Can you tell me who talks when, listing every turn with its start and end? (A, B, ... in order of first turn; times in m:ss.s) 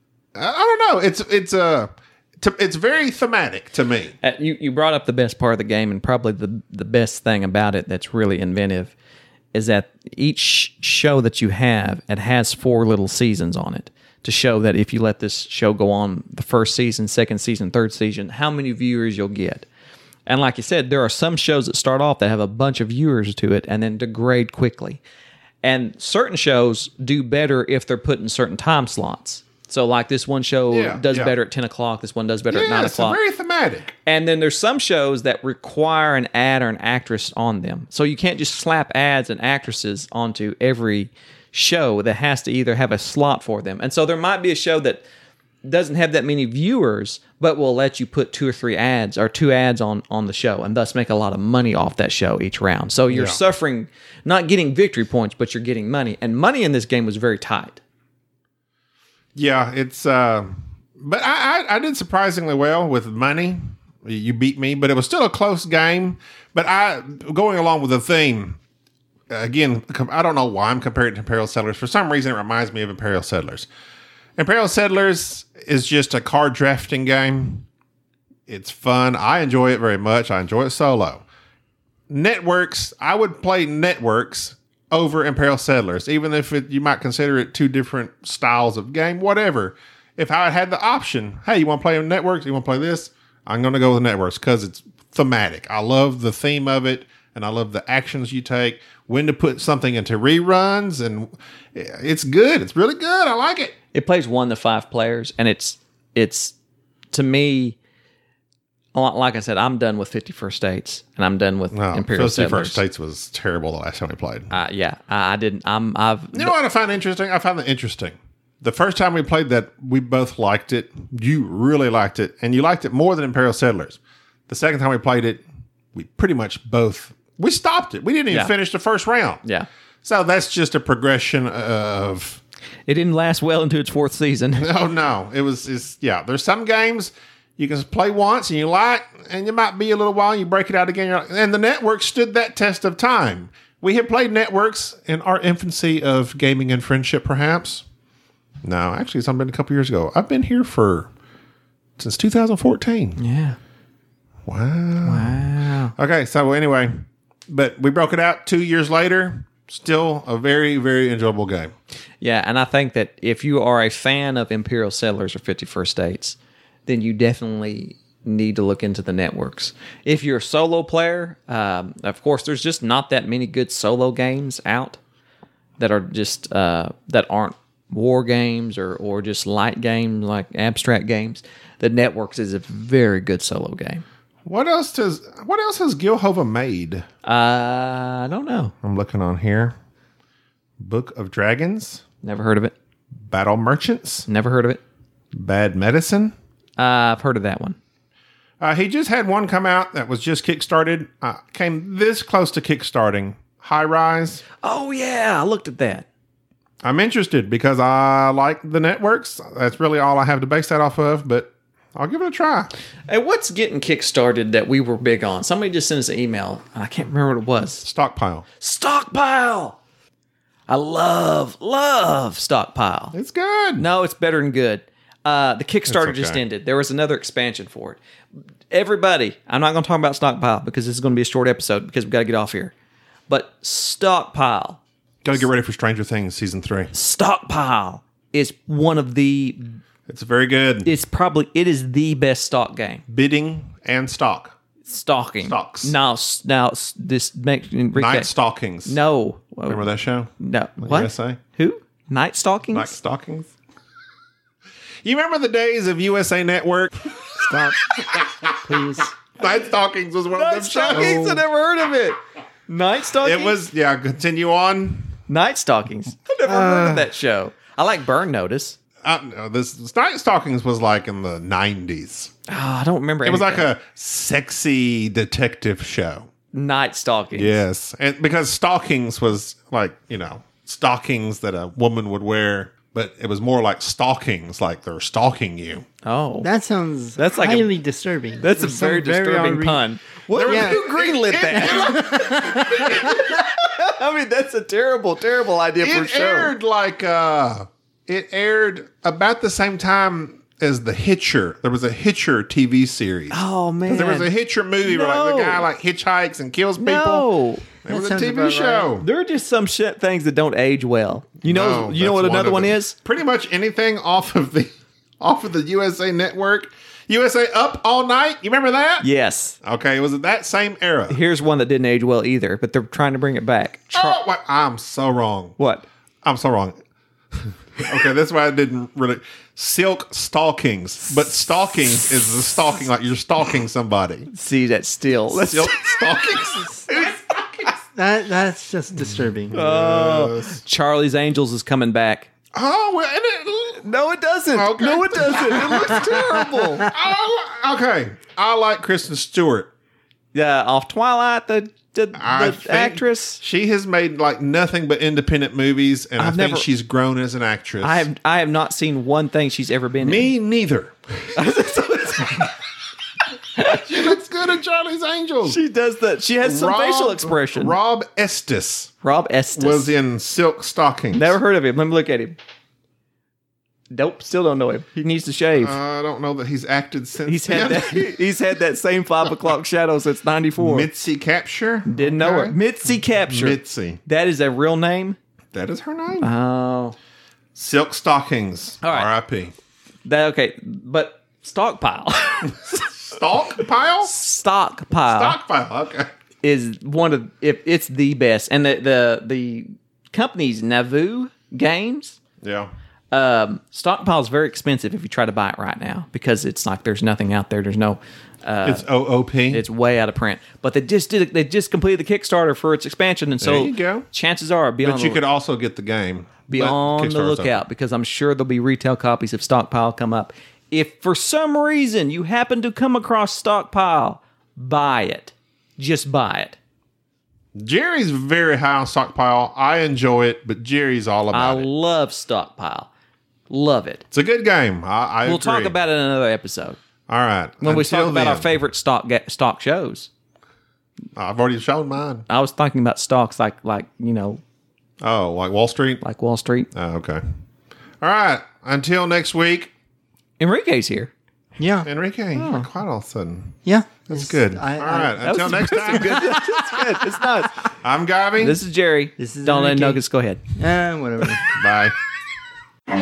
0:00.4-0:04.1 A
0:04.2-0:08.9 B
0:09.5-0:19.7 B
0:20.3-0:25.0 B
0:25.6-0:33.2 B
0:30.7-0:31.4 A
0:32.5-0:33.9 A
0:34.1-0:45.0 B
0:45.6-0:57.8 B
0:53.1-0:53.4 A
0:59.4-1:08.6 A
1:09.3-1:13.7 A
1:14.4-1:17.7 A
1:18.5-1:21.2 A
1:22.1-1:43.8 A
1:43.9-1:46.6 B
1:47.1-1:47.8 B
1:48.9-1:52.8 B
1:51.7-1:54.5 A
1:54.5-1:56.5 B
1:56.3-2:05.4 A
2:05.9-2:09.4 A
2:10.0-2:12.4 A
2:12.9-2:14.7 B
2:14.6-2:27.8 A
2:28.6-2:31.1 A
2:32.0-2:33.2 A
2:33.2-2:33.6 B
2:34.5-2:41.7 A
2:35.0-2:36.0 B
2:42.2-2:55.0 B
2:55.8-3:04.0 B
3:04.4-3:07.0 A
3:07.2-3:08.7 B
3:08.8-3:09.8 A
3:10.8-3:12.0 A
3:12.2-3:12.7 B
3:13.2-3:14.3 A
3:14.3-3:14.8 B
3:15.3-3:16.3 A
3:16.8-3:17.8 B
3:18.6-3:24.4 A
3:24.6-3:26.1 B
3:26.8-3:32.7 A
3:33.1-3:37.8 B
3:37.8-3:38.5 A
3:38.6-3:39.8 B
3:40.7-3:43.2 B
3:43.1-3:43.9 A
3:43.8-3:48.0 B
3:45.9-3:46.4 A
3:48.7-3:52.7 B
3:53.3-3:54.8 B
3:55.2-3:56.9 A
3:56.9-3:59.8 B
4:00.1-4:00.9 A
4:00.8-4:03.0 B
4:03.1-4:04.6 A
4:04.9-4:08.3 B
4:05.4-4:06.0 A
4:07.9-4:09.0 A
4:08.9-4:12.9 B
4:09.7-4:11.4 A
4:12.7-4:13.5 A
4:15.0-4:18.3 A
4:17.4-4:19.1 C
4:19.4-4:21.4 A
4:20.3-4:23.6 B
4:23.2-4:25.2 A
4:25.3-4:28.8 B
4:26.5-4:27.1 C
4:29.0-4:32.3 A
4:32.5-4:33.7 B
4:33.2-4:36.3 A
4:36.5-4:37.6 B
4:37.4-4:45.9 A
4:46.0-4:46.5 B
4:46.4-4:49.8 C
4:47.2-4:47.7 B
4:48.4-4:56.5 B
4:50.3-4:53.2 A
4:50.4-4:50.8 C
4:51.4-4:53.3 C
4:55.8-5:07.3 A
5:03.3-5:04.3 B
5:04.8-5:05.7 B
5:06.8-5:07.7 B
5:07.8-5:09.1 A
5:07.9-5:08.9 C
5:09.0-5:13.0 B
5:11.4-5:19.1 A
5:19.0-5:19.6 B
5:19.6-5:21.2 A
5:21.1-5:24.2 B
5:23.9-5:25.6 A
5:25.6-5:25.9 B
5:26.2-5:26.8 A
5:27.3-5:34.3 A
5:34.3-5:37.2 B
5:35.3-5:37.0 A
5:37.9-5:39.6 C
5:39.5-5:40.6 A
5:39.5-5:42.3 B
5:42.5-5:43.8 A
5:43.8-5:46.9 B
5:44.5-5:49.7 A
5:50.3-5:53.4 B
5:52.2-5:58.1 A
5:56.2-5:56.7 B
5:57.8-6:00.3 B
6:00.0-6:01.3 A
6:01.4-6:02.5 B
6:03.6-6:05.6 A
6:05.4-6:07.8 B
6:06.4-6:08.9 A
6:09.0-6:10.0 B
6:09.6-6:11.4 A
6:11.1-6:12.4 B
6:13.9-6:15.8 B
6:15.6-6:18.2 A
6:17.3-6:20.9 B
6:20.6-6:22.6 A
6:21.9-6:25.2 B
6:23.3-6:24.0 A
6:25.5-6:26.3 A
6:26.2-6:27.0 B
6:27.6-6:29.5 A
6:28.8-6:29.1 B
6:30.0-6:32.9 B
6:33.0-6:34.1 A
6:34.0-6:35.4 B
6:35.1-6:36.1 A
6:36.4-6:42.2 B
6:42.4-6:42.7 A
6:43.1-6:48.9 B
6:48.6-6:49.6 A
6:49.5-6:55.2 B
6:53.4-6:54.1 A
6:54.8-6:57.6 A
6:56.5-7:06.6 B
7:07.6-7:11.7 A
7:11.3-7:12.9 B
7:13.5-7:14.0 B
7:14.1-7:15.7 A
7:15.2-7:16.8 B
7:17.1-7:18.5 A
7:17.6-7:20.1 B
7:21.2-7:22.2 A
7:22.3-7:24.4 B
7:25.0-7:26.0 A
7:26.0-7:26.7 B
7:26.7-7:27.2 A
7:28.0-7:29.7 A
7:30.4-7:31.1 B
7:31.6-7:31.9 C
7:31.8-7:36.4 A
7:32.4-7:32.7 B
7:33.6-7:36.6 C
7:35.2-7:37.7 B
7:37.8-7:38.6 A
7:38.4-7:40.4 B
7:39.2-7:40.0 C
7:40.6-7:41.5 C
7:41.5-7:42.0 A